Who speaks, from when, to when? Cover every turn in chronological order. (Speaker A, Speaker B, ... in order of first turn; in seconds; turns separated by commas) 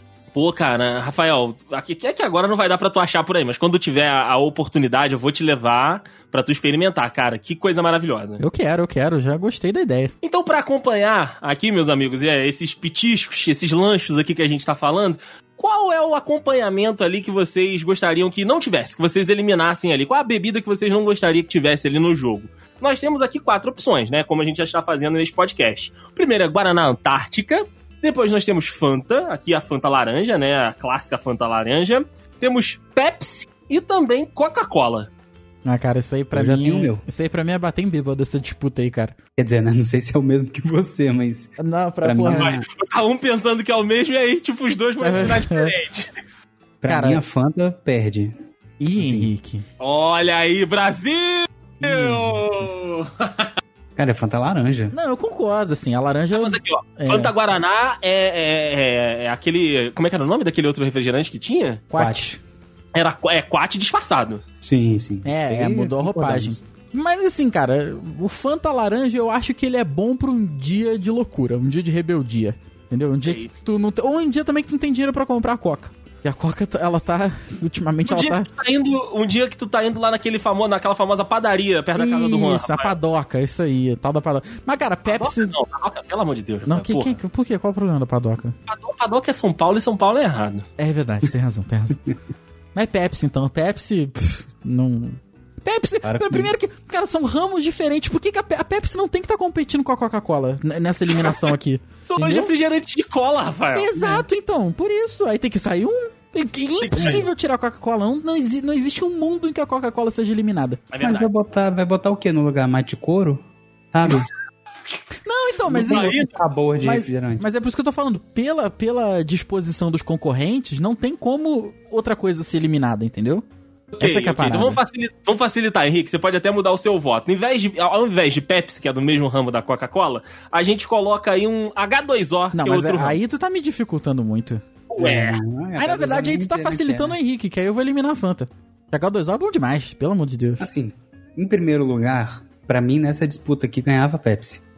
Speaker A: 0.3-8.4, Speaker B: 8.4-10.1, Speaker A: 10.2-35.1, Speaker B: 35.6-39.1, Speaker C: 36.3-37.0, Speaker C: 39.4-42.7, Speaker B: 41.6-42.6, Speaker A: 42.3-46.1, Speaker B: 45.0-45.7, Speaker C: 46.8-48.4, Speaker B: 46.9-47.2, Speaker B: 48.8-49.6, Speaker C: 49.0-49.3, Speaker A: 49.8-53.5, Speaker B: 51.8-52.5, Speaker C: 54.0-54.9, Speaker B: 54.9-57.3, Speaker A: 56.3-61.8, Speaker B: 61.9-62.4, Speaker C: 62.0-62.4, Speaker A: 62.9-64.4, Speaker C: 64.6-66.6, Speaker B: 65.2-78.5, Speaker A: 73.2-73.5, Speaker A: 78.1-83.0, Speaker B: 82.0-85.5, Speaker A: 85.1-87.2, Speaker B: 86.6-88.5, Speaker A: 88.7-90.7, Speaker B: 90.8-92.0, Speaker B: 92.7-102.5, Speaker C: 96.0-96.6, Speaker A: 102.0-104.0, Speaker B: 103.7-110.8, Speaker C: 104.0-104.2, Speaker A: 106.8-107.3, Speaker C: 107.0-107.2, Speaker A: 110.9-111.3, Speaker C: 111.0-114.3, Speaker B: 115.2-116.2, Speaker C: 115.7-117.4, Speaker A: 115.8-116.3, Speaker B: 116.8-123.4, Speaker A: 123.9-133.2, Speaker B: 124.0-124.8, Speaker B: 132.5-134.6, Speaker A: 134.9-135.4, Speaker C: 135.0-137.2, Speaker B: 135.8-140.7, Speaker C: 140.6-144.6